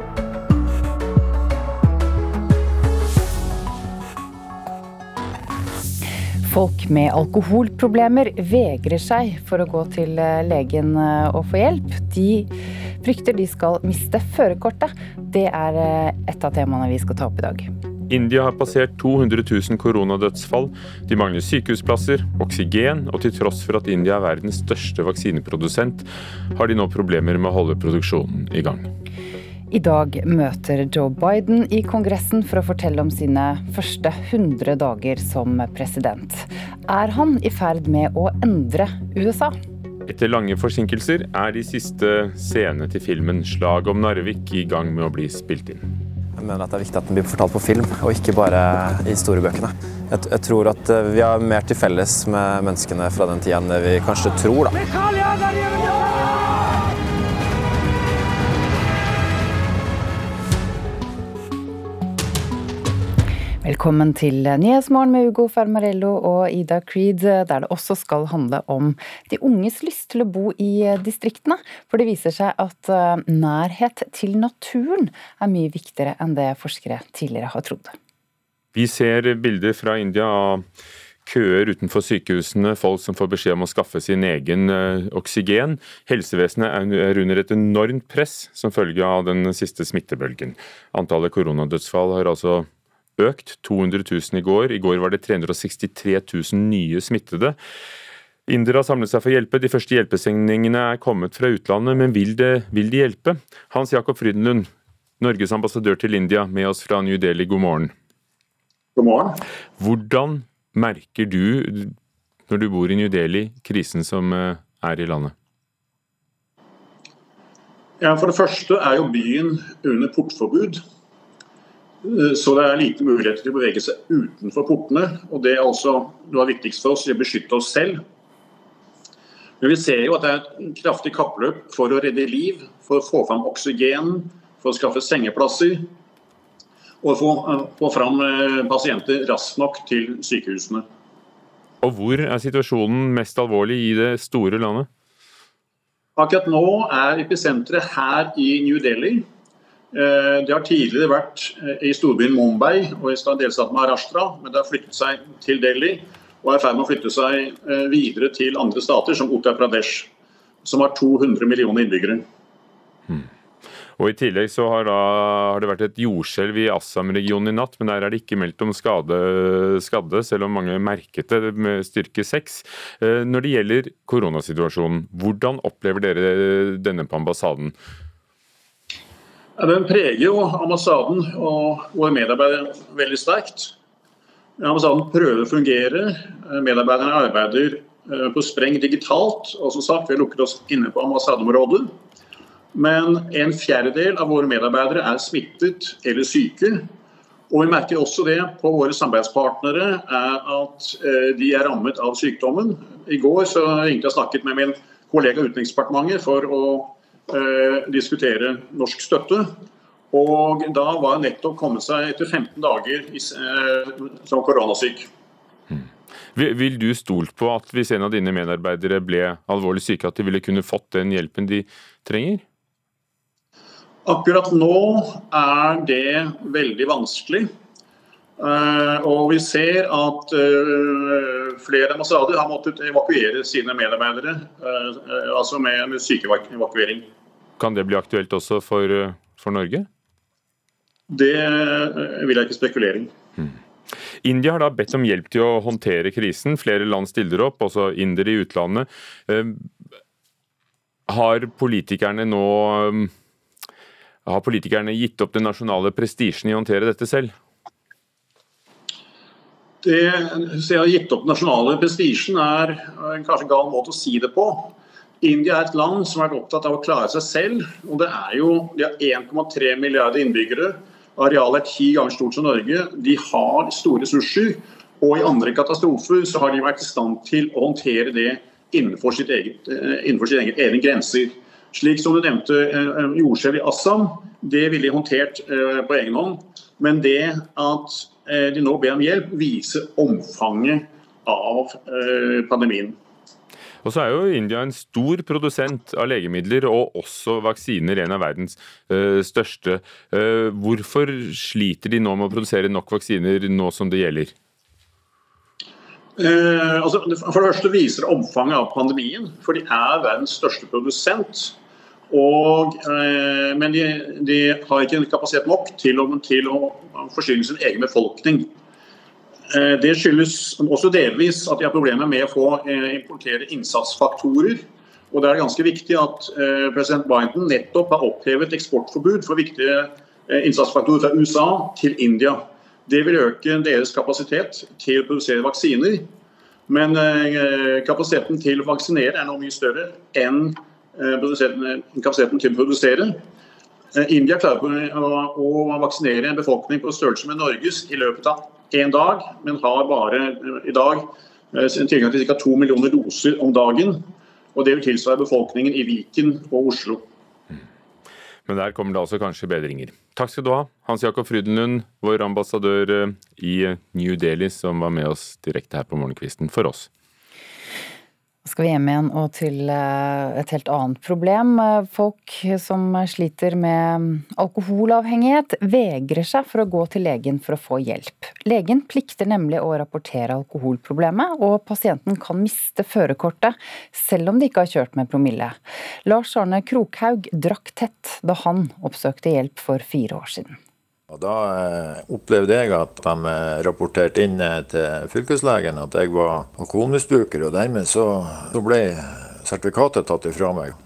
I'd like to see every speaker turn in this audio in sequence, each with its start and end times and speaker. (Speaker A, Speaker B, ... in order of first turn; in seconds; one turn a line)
Speaker A: 6.4-17.7
Speaker B: 18.1-28.9
Speaker A: 29.7-39.5
Speaker B: 40.1-45.9
Speaker C: 46.4-54.9
Speaker A: 63.6-78.0
Speaker B: 78.7-80.6
Speaker B: 81.2-97.6
Speaker B: 98.5-107.9
Speaker D: 109.0-109.4
Speaker B: 109.8-111.9
Speaker B: 112.5-115.3
Speaker D: 118.0-120.8
Speaker D: 122.0-128.0
Speaker D: 129.6-135.9
Speaker D: 137.0-140.8
Speaker B: 141.8-144.9
Speaker D: 146.2-149.2
Speaker D: 149.9-160.1
Speaker D: 160.6-162.2
Speaker B: 163.9-177.7
Speaker D: 179.6-183.7
Speaker D: 184.6-191.9
Speaker D: 192.7-196.8
Speaker D: 197.5-209.5
Speaker D: 210.1-215.1
Speaker B: 215.7-222.4
Speaker D: 224.1-227.5
Speaker D: 228.4-237.1
Speaker B: 237.6-239.9
Speaker D: 241.1-243.1
Speaker B: 244.2-249.7
Speaker B: 251.1-253.1
Speaker B: 254.2-257.3
Speaker D: 259.8-292.9
Speaker B: 293.8-304.3
Speaker D: 306.2-311.5
Speaker D: 312.1-318.5
Speaker D: 319.5-336.1
Speaker D: 336.7-343.2
Speaker D: 343.9-357.0
Speaker B: 358.5-366.9
Speaker A: 368.4-390.6
Speaker E: 391.1-400.8